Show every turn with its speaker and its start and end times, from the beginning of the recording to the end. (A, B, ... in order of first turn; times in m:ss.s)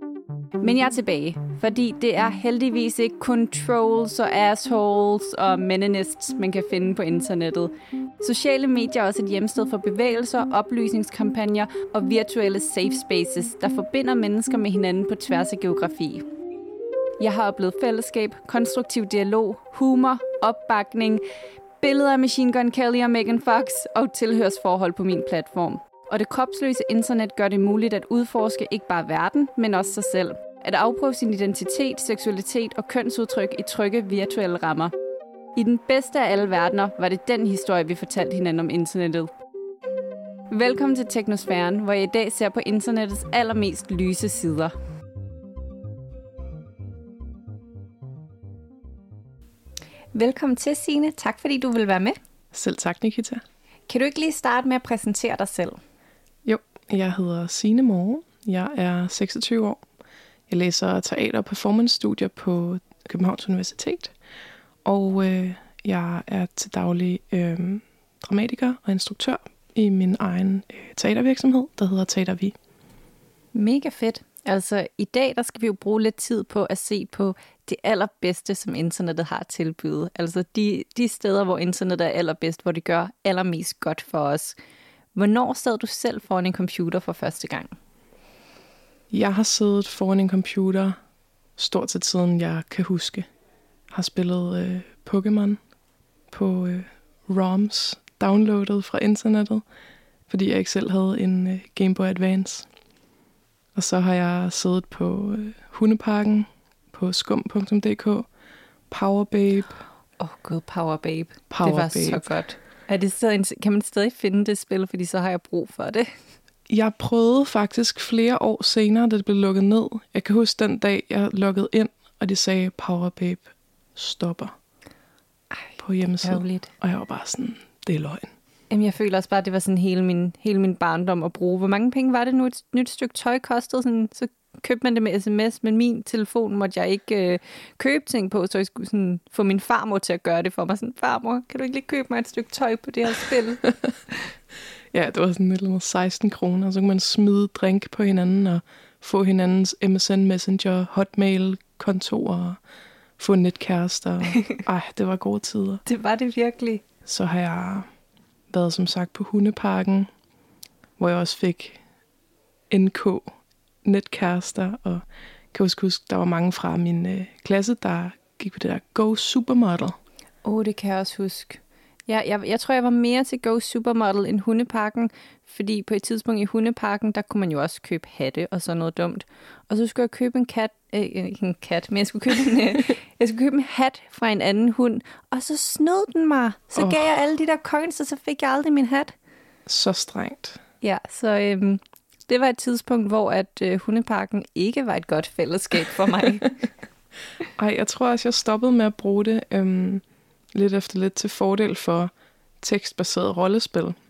0:00.6-0:16.2 A
0:17.2-0:21.2 A
0:21.8-0:34.9 A
0:35.6-0:39.3 A
0:40.5-0:44.7 A
0:50.2-0:52.2 A
0:52.5-0:53.4 B
0:53.9-0:55.8 A
0:56.4-0:59.8 B
1:00.5-1:04.1 B
1:04.8-1:12.6 B
1:13.6-1:24.6 A
1:25.2-1:27.8 A
1:29.1-1:31.0 B
1:31.6-1:33.3 B
1:33.9-1:35.6 B
1:36.3-1:39.6 B
1:40.3-1:42.7 B
1:43.8-1:48.3 B
1:48.9-1:49.8 B
1:50.2-1:56.1 A
1:51.5-1:52.2 B
1:56.7-2:04.6 B
2:05.8-2:08.3 B
2:06.2-2:06.7 A
2:08.7-2:23.6 A
2:24.9-2:32.6 B
2:33.2-2:35.8 B
2:35.9-2:36.8 A
2:37.1-2:37.9 B
2:38.5-2:40.1 B
2:41.0-2:41.8 B
2:42.7-2:43.3 B
2:43.8-2:50.0 B
2:50.4-3:09.1 A
3:06.8-3:07.1 B
3:09.7-3:10.6 B
3:10.8-3:16.5 A
3:17.6-3:20.0 B
3:20.5-3:24.0 B